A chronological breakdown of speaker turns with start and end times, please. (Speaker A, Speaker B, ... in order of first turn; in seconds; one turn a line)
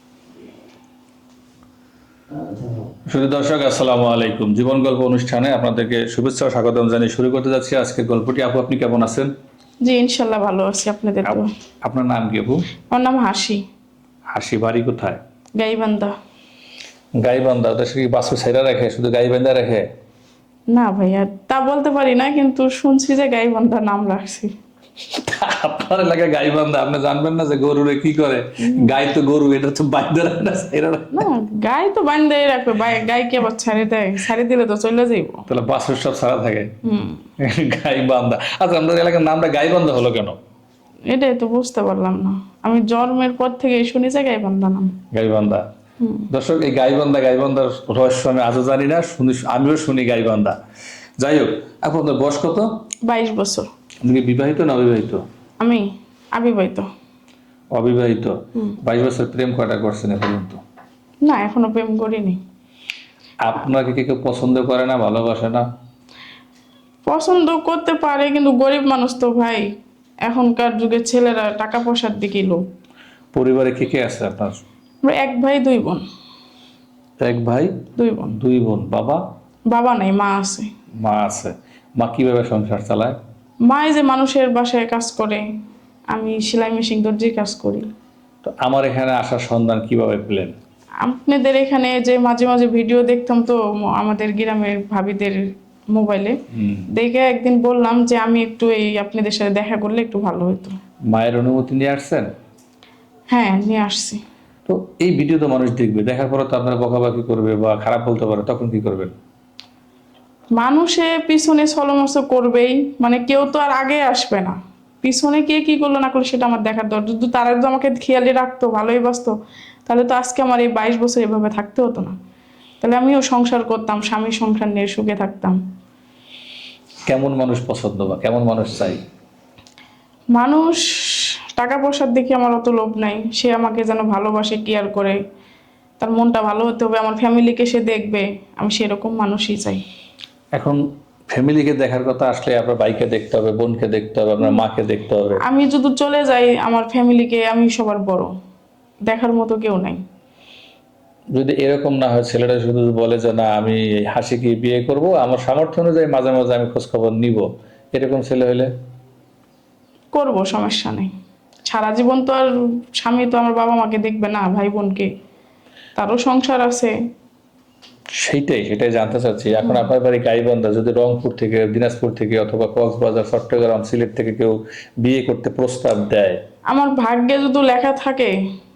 Speaker A: 3.1-9.3
Speaker B: 9.8-11.5
Speaker A: 11.2-12.6
Speaker B: 12.9-13.6
Speaker A: 14.3-15.2
Speaker B: 15.6-16.1
Speaker A: 17.2-19.9
Speaker B: 20.7-24.5
Speaker A: 25.1-31.2
Speaker B: 28.6-28.9
Speaker B: 31.1-35.5
Speaker A: 35.5-36.7
Speaker B: 36.8-37.2
Speaker A: 37.4-40.4
Speaker B: 41.1-44.9
Speaker A: 45.1-45.6
Speaker B: 46.0-46.3
Speaker A: 46.3-50.6
Speaker A: 51.2-52.7
Speaker B: 53.1-53.7
Speaker A: 54.0-55.2
Speaker B: 55.6-56.9
Speaker A: 57.7-60.6
Speaker B: 61.2-62.4
Speaker A: 63.4-65.7
Speaker B: 67.1-69.7
Speaker B: 70.2-72.6
Speaker A: 73.3-74.6
Speaker B: 75.0-76.0
Speaker A: 77.2-77.7
Speaker B: 78.0-78.3
Speaker A: 78.3-79.2
Speaker B: 79.7-80.7
Speaker A: 81.0-83.2
Speaker B: 83.7-85.4
Speaker B: 86.1-87.9
Speaker A: 88.4-90.5
Speaker B: 91.0-96.4
Speaker A: 96.6-96.8
Speaker B: 96.9-100.8
Speaker A: 101.1-102.3
Speaker B: 103.3-104.2
Speaker A: 104.7-109.1
Speaker B: 110.6-119.3
Speaker B: 119.9-122.2
Speaker B: 122.8-125.6
Speaker A: 127.1-129.0
Speaker B: 130.3-135.2
Speaker B: 136.0-139.8
Speaker A: 141.3-145.4
Speaker B: 145.4-148.3
Speaker B: 149.1-150.0
Speaker A: 151.3-158.7
Speaker B: 160.1-161.1
Speaker B: 161.7-165.1
Speaker B: 166.0-166.9
Speaker A: 168.2-176.4
Speaker B: 176.7-178.4